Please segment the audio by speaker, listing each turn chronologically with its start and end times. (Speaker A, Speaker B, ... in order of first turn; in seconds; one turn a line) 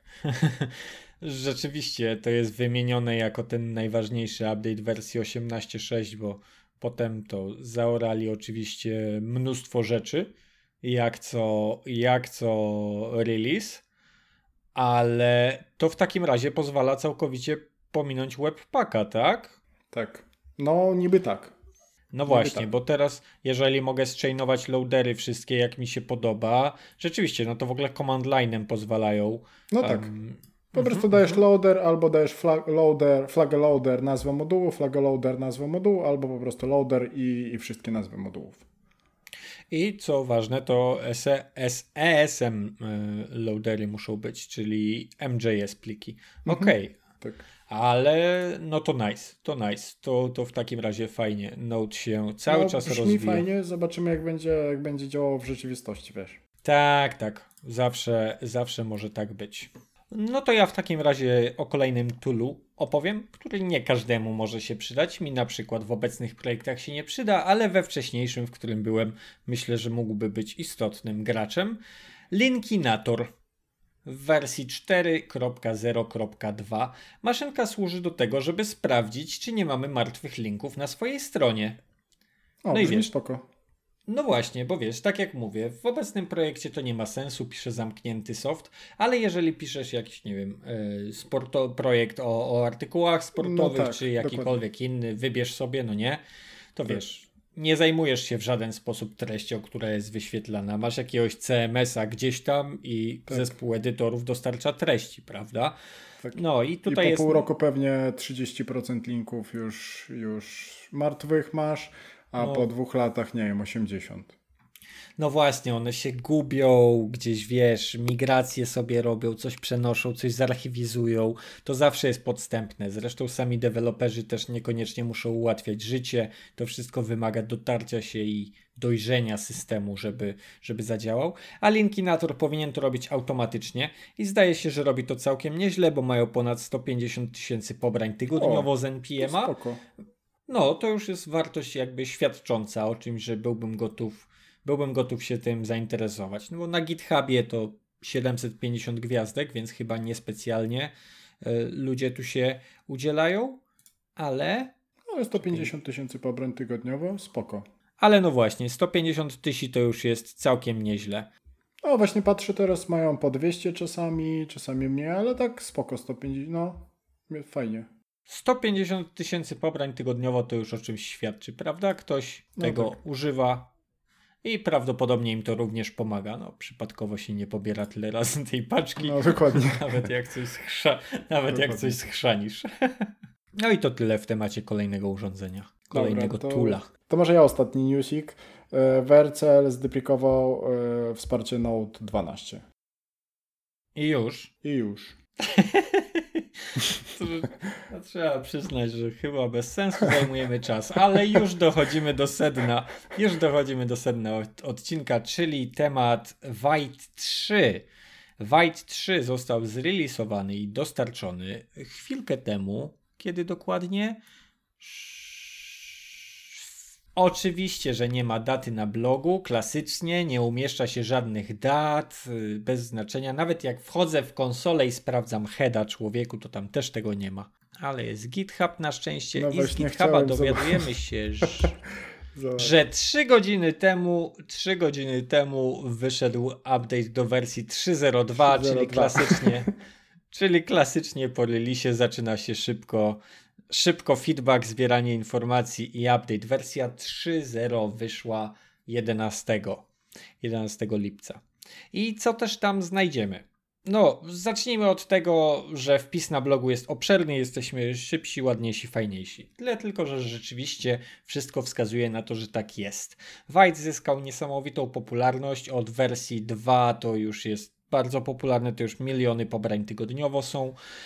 Speaker A: 0.2-13.8
Speaker A: 14.7-19.6
Speaker B: 19.9-21.5
Speaker A: 22.1-31.4
Speaker B: 22.2-22.7
Speaker B: 29.7-30.1
Speaker B: 30.7-38.6
Speaker A: 39.7-47.0
Speaker B: 46.5-47.4
Speaker A: 47.7-53.4
Speaker B: 52.5-56.4
Speaker A: 56.6-71.8
Speaker A: 72.3-73.3
Speaker A: 74.0-81.8
Speaker B: 82.6-83.4
Speaker A: 82.7-83.1
Speaker A: 84.1-96.2
Speaker B: 93.4-94.6
Speaker A: 96.7-105.8
Speaker B: 103.3-103.5
Speaker B: 106.2-114.3
Speaker A: 106.3-107.5
Speaker A: 112.4-112.7
Speaker A: 115.2-139.5
Speaker B: 138.3-139.8
Speaker A: 140.5-153.6
Speaker A: 154.2-154.7
Speaker B: 155.1-157.6
Speaker A: 155.3-155.7
Speaker A: 158.0-161.3
Speaker B: 161.8-167.9
Speaker A: 168.3-173.7
Speaker B: 172.6-173.0
Speaker A: 174.4-186.9
Speaker B: 179.0-179.9
Speaker B: 181.5-182.0
Speaker B: 185.9-192.6
Speaker A: 193.9-194.5
Speaker B: 194.6-195.2
Speaker A: 195.4-207.8
Speaker A: 208.4-214.2
Speaker A: 214.8-216.6
Speaker A: 217.2-231.8
Speaker B: 229.3-230.8
Speaker B: 232.3-232.7
Speaker A: 232.6-239.7
Speaker B: 238.4-239.7
Speaker A: 240.3-249.9
Speaker A: 250.4-251.4
Speaker A: 251.9-270.8